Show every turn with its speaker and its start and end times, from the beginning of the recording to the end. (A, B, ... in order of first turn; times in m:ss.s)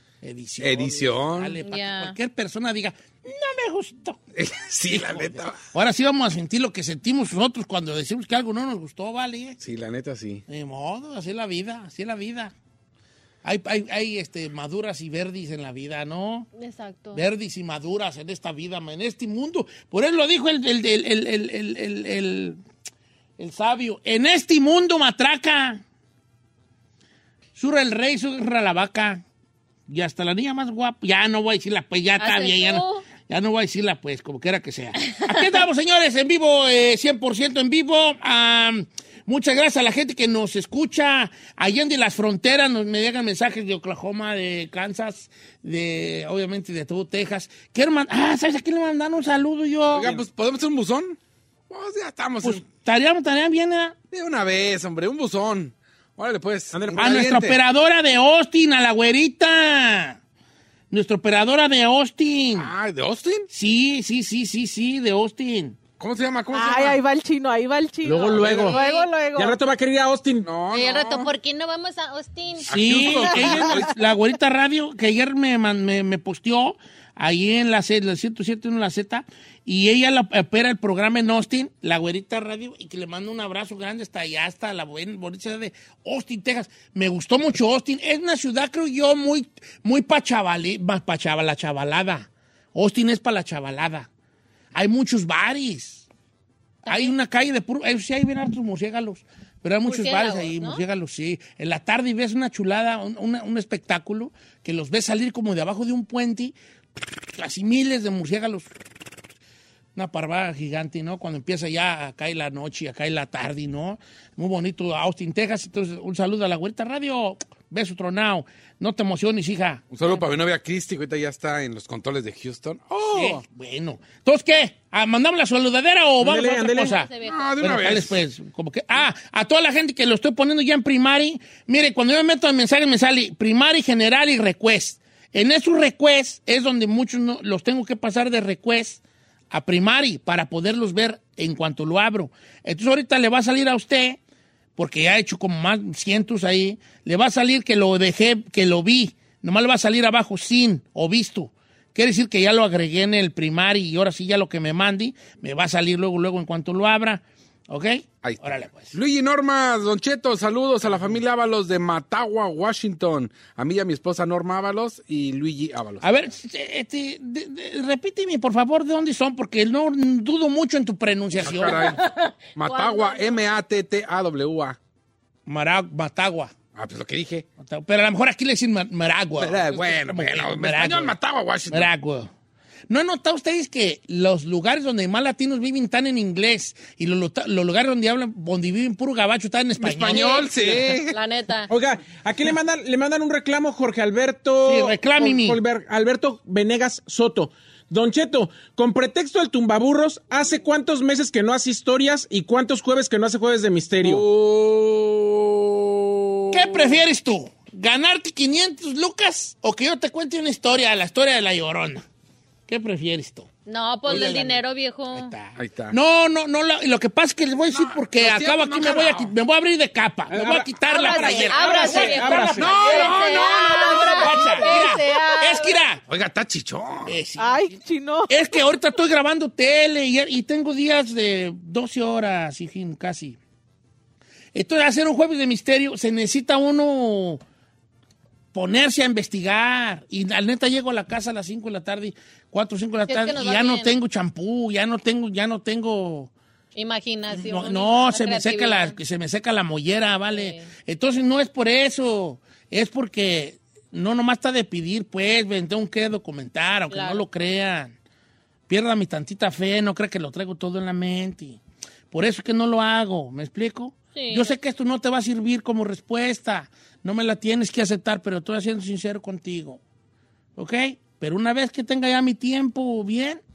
0:00.2-0:04.2 A
0:00.6-0:01.6 B
0:01.6-0:02.2 C
0:04.3-0:05.6 B
0:04.9-0:09.6 A
0:09.6-0:10.4 B
0:10.5-0:12.5 A
0:13.4-0:16.5 A
0:16.6-0:17.2 C
0:17.1-0:22.6 A
0:23.4-0:25.8 A
0:27.6-0:29.2 A
0:29.9-0:50.2 A
0:32.2-0:33.0 C
0:35.1-0:35.4 C
0:49.9-0:51.2 B
0:51.7-0:52.6 B
0:52.4-0:54.0 A
0:54.1-0:57.6 B
0:56.7-0:57.2 D
0:56.9-1:00.2 A
1:00.9-1:02.7 A
1:02.6-1:03.5 B
1:03.5-1:05.8 A
1:06.0-1:07.0 B
1:06.5-1:09.6 E
1:08.0-1:08.8 B
1:08.2-1:08.8 D
1:08.7-1:09.1 C
1:09.3-1:10.5 D
1:10.4-1:11.3 B
1:10.7-1:12.7 C
1:12.7-1:13.8 B
1:12.7-1:34.1 A
1:13.2-1:13.8 E
1:34.7-1:36.0 A
1:36.8-1:37.1 C
1:36.8-1:46.5 A
1:39.8-1:40.8 C
1:47.3-1:48.7 A
1:49.9-1:59.9 A
1:59.9-2:03.4 B
2:03.1-2:07.1 A
2:06.2-2:07.0 D
2:07.0-2:07.6 C
2:07.2-2:08.2 B
2:07.6-2:24.2 A
2:24.8-2:38.9 A
2:38.2-2:46.3 B
2:46.0-2:51.8 A
2:51.4-2:54.8 B
2:51.7-2:53.4 C
2:55.5-2:56.5 A
2:56.7-2:57.4 B
2:57.6-3:01.1 A
2:59.4-3:01.9 B
3:01.7-3:02.3 A
3:02.9-3:10.8 A
3:09.8-3:11.2 B
3:10.1-3:10.5 C
3:11.1-3:11.7 C
3:11.7-3:24.2 D
3:14.6-3:15.6 A
3:24.0-3:27.0 B
3:26.5-3:32.0 A
3:32.7-3:33.5 A
3:33.6-3:35.3 C
3:34.0-3:34.6 A
3:35.1-3:43.2 A
3:35.6-3:36.0 B
3:37.7-3:39.3 B
3:40.3-3:42.8 D
3:40.8-3:45.8 C
3:42.6-3:44.4 B
3:43.8-3:44.8 E
3:43.8-3:46.0 A
3:46.1-3:47.2 B
3:47.0-3:47.8 A
3:47.4-3:48.5 E
3:48.3-3:53.4 A
3:54.5-3:57.4 A
3:58.5-4:06.3 A
4:03.1-4:03.9 C
4:06.7-4:09.0 C
4:07.3-4:17.9 A
4:10.3-4:10.7 C
4:16.9-4:17.2 C
4:18.7-4:21.6 A
4:22.1-4:29.8 A
4:24.1-4:24.5 C
4:30.6-4:33.4 A